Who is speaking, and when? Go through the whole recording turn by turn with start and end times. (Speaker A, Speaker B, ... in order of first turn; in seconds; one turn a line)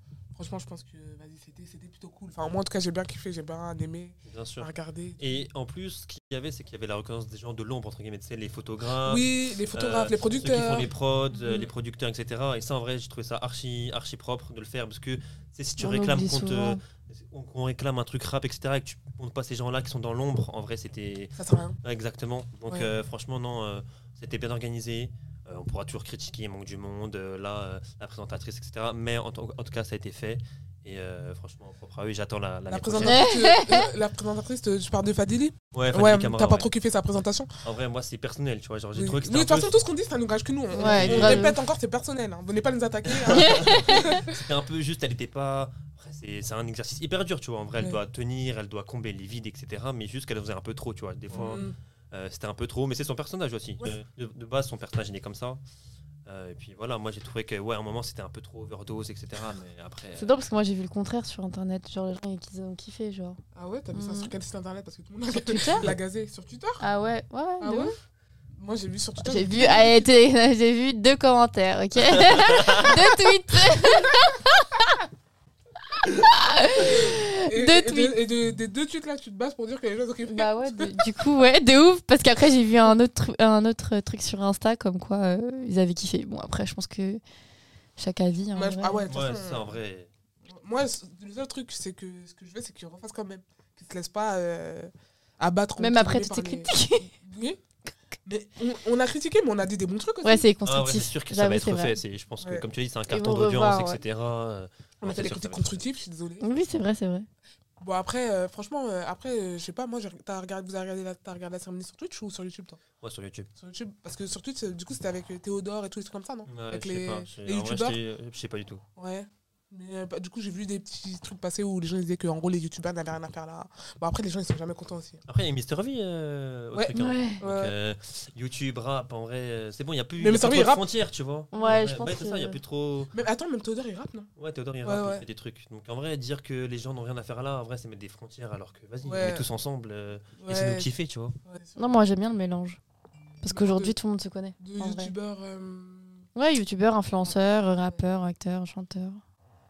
Speaker A: 0.3-5.4
Speaker B: 4.2-33.2
Speaker A: 9.0-10.9
Speaker C: 15.8-16.8
Speaker A: 21.4-21.8
Speaker A: 32.7-37.5
Speaker C: 33.0-33.9
Speaker B: 35.7-36.7
Speaker B: 37.6-39.8
Speaker A: 39.0-44.3
Speaker C: 40.7-41.6
Speaker B: 40.7-41.5
Speaker B: 43.1-55.6
Speaker C: 43.5-44.1
Speaker A: 51.3-51.7
Speaker B: 56.3-60.4
Speaker C: 60.2-63.4
Speaker A: 63.5-66.8
Speaker C: 63.9-64.3
Speaker C: 65.3-65.9
Speaker C: 66.8-68.0
Speaker A: 67.6-68.0
Speaker A: 68.6-70.2
Speaker C: 69.2-74.9
Speaker B: 72.5-72.8
Speaker C: 76.1-78.2
Speaker A: 76.8-81.0
Speaker C: 80.3-87.2
Speaker C: 88.0-89.0
Speaker A: 88.5-89.8
Speaker B: 89.1-90.1
Speaker A: 90.5-97.6
Speaker C: 95.8-97.1
Speaker A: 98.3-100.5
Speaker C: 100.2-102.0
Speaker B: 100.6-105.9
Speaker A: 102.4-102.7
Speaker C: 103.1-104.0
Speaker A: 105.0-106.5
Speaker C: 106.4-107.3
Speaker A: 107.8-112.8
Speaker B: 113.0-113.5
Speaker A: 113.6-118.0
Speaker B: 116.5-118.8
Speaker A: 119.0-125.2
Speaker B: 125.3-133.1
Speaker A: 126.7-127.7
Speaker C: 126.9-127.4
Speaker A: 130.2-130.8
Speaker C: 131.5-132.6
Speaker A: 131.6-131.9
Speaker A: 133.1-134.3
Speaker B: 134.4-141.3
Speaker A: 134.8-135.2
Speaker A: 139.1-139.5
Speaker A: 140.4-140.9
Speaker A: 141.4-142.0
Speaker C: 141.8-142.8
Speaker C: 143.4-145.1
Speaker A: 143.4-143.9
Speaker A: 144.6-146.2
Speaker C: 146.3-149.2
Speaker A: 147.2-148.1